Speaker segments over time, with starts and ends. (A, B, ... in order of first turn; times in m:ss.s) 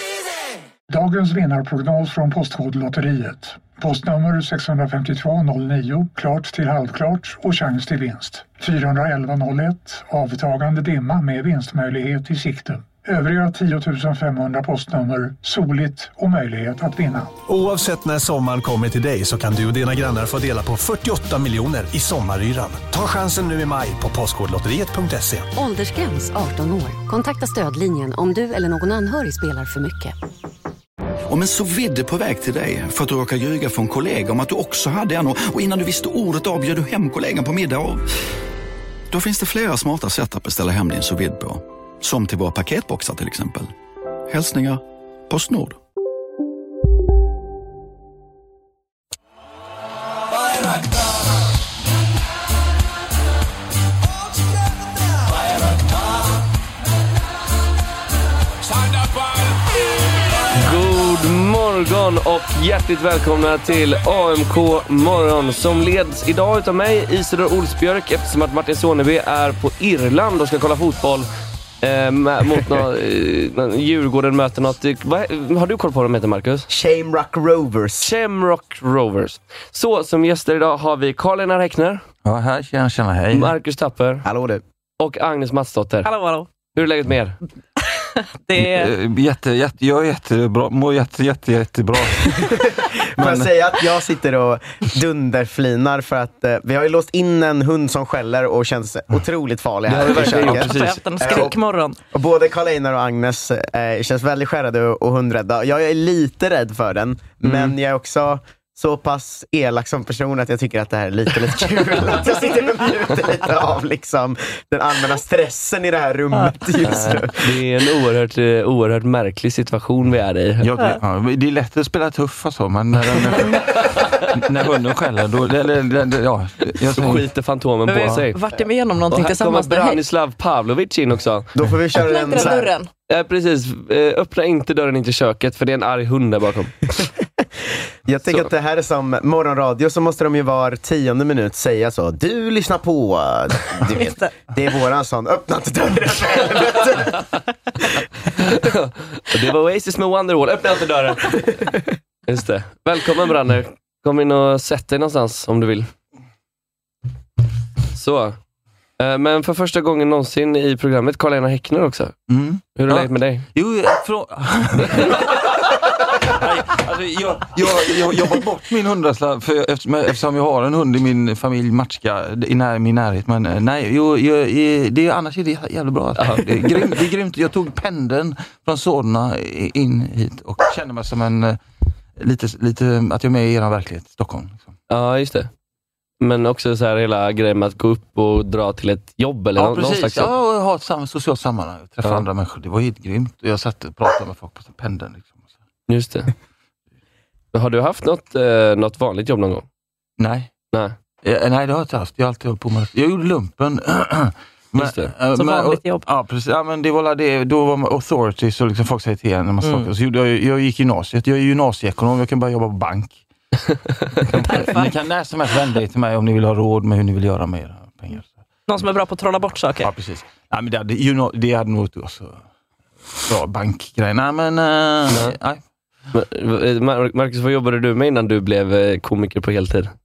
0:00.9-0:17.4 A
0:17.5-0:25.5 B
0:25.6-0:30.1 C
0:31.3-0:38.1 D
0:39.1-0:43.7 D
0:44.3-0:45.8 D
1:00.5-1:11.3 E
1:11.8-1:16.7 E
1:16.7-1:18.1 F
1:18.0-1:22.0 E
1:22.2-1:23.6 G
1:23.3-1:24.2 E
1:24.2-1:24.6 F
1:25.0-1:26.1 E
1:26.0-1:26.5 H
1:26.7-1:27.4 E
1:27.8-1:28.9 H
1:28.6-1:33.5 G
1:32.2-1:41.6 F
1:39.9-1:41.5 E
1:40.3-1:42.0 H
1:42.1-1:57.5 F
1:47.4-1:47.8 E
1:56.8-2:00.7 E
2:00.6-2:07.3 G
2:07.0-2:08.6 E
2:07.9-2:10.0 H
2:09.1-2:11.5 E
2:11.5-2:12.7 F
2:12.0-2:12.9 H
2:13.1-2:16.9 E
2:18.1-2:27.2 F
2:24.0-2:24.3 H
2:28.4-2:31.4 E
2:32.3-2:35.9 E
2:37.9-2:38.4 E
2:39.0-2:42.2 E
2:42.3-2:45.3 G
2:42.8-2:43.5 E
2:44.8-2:45.1 E
2:46.2-3:01.6 G
2:56.2-2:56.9 E
3:02.2-3:04.7 G
3:04.9-3:05.5 E
3:06.2-3:10.3 E
3:09.6-3:15.4 G
3:15.9-3:16.3 E
3:17.5-3:19.7 E
3:20.2-3:20.5 G
3:21.2-3:33.2 G
3:24.8-3:25.1 E
3:25.4-3:26.1 H
3:29.6-3:29.9 H
3:34.2-3:38.3 G
3:34.4-3:35.0 H
3:38.7-3:39.9 H
3:39.8-3:42.4 G
3:43.2-3:45.6 G
3:45.1-3:45.4 E
3:46.1-3:49.9 E